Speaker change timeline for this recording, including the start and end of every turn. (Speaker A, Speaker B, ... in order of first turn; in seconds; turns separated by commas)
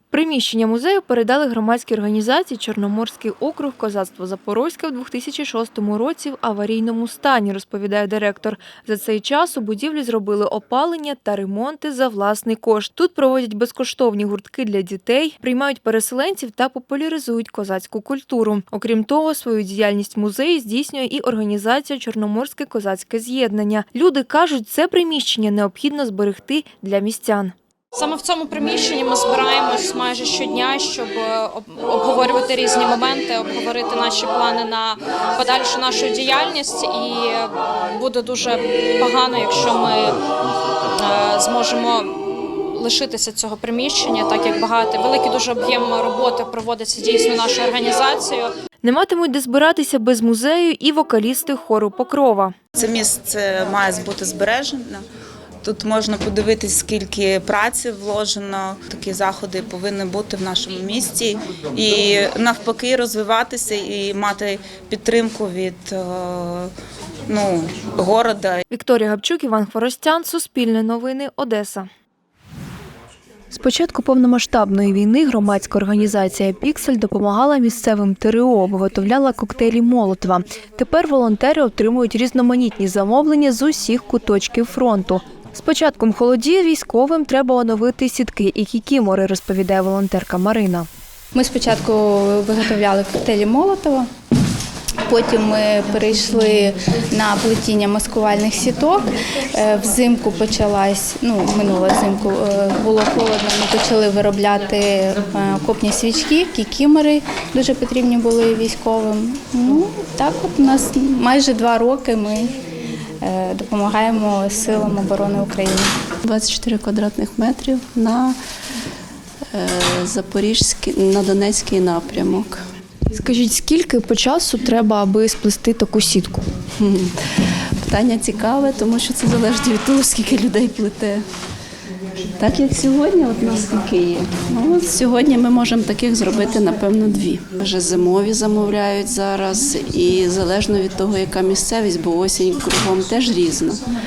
Speaker A: 0.1-27.5, Speaker B: 27.9-40.2, Speaker B: 41.0-42.2, Speaker B: 42.7-48.5, Speaker A: 48.8-52.6, Speaker C: 52.8-55.0, Speaker C: 55.6-66.7, Speaker C: 67.3-68.6, Speaker A: 68.7-71.9, Speaker A: 73.5-90.9, Speaker D: 91.3-94.1, Speaker D: 95.1-112.5, Speaker D: 113.2-115.9, Speaker E: 116.2-118.4, Speaker E: 119.5-122.6, Speaker A: 123.1-126.5, Speaker E: 126.8-127.1, Speaker E: 127.8-131.2, Speaker E: 132.4-143.8